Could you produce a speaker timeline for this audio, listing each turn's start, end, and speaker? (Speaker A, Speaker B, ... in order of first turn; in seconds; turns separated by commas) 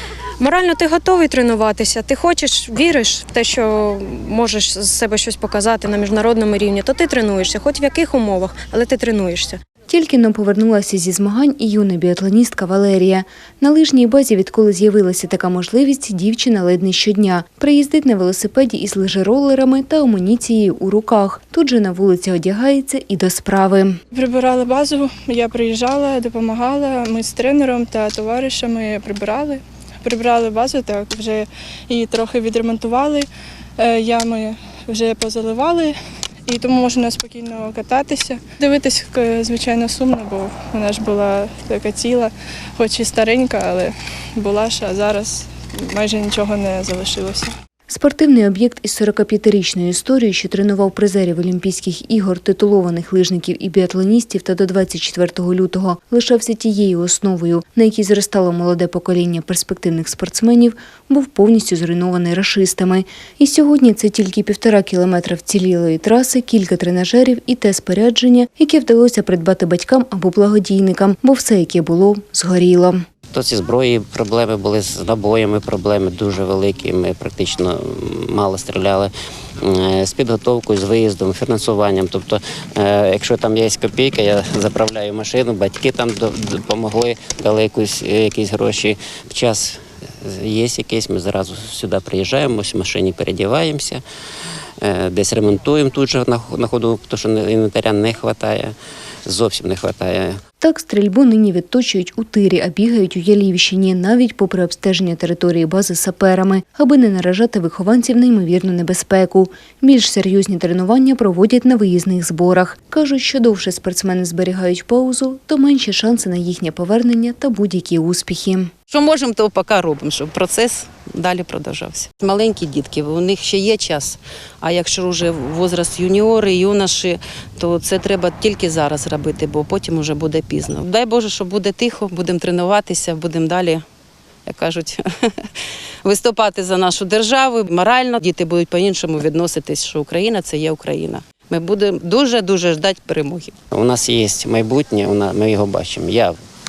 Speaker A: 0.4-9.6, Speaker B: 9.9-24.0, Speaker C: 24.1-33.3, Speaker C: 33.8-36.0, Speaker C: 36.5-47.5, Speaker B: 47.9-73.0, Speaker D: 73.3-79.1, Speaker D: 79.6-94.0, Speaker D: 94.8-98.8, Speaker D: 99.3-100.4, Speaker B: 100.6-118.7, Speaker E: 118.9-133.8, Speaker E: 134.5-135.5, Speaker E: 136.0-143.5, Speaker D: 143.7-146.4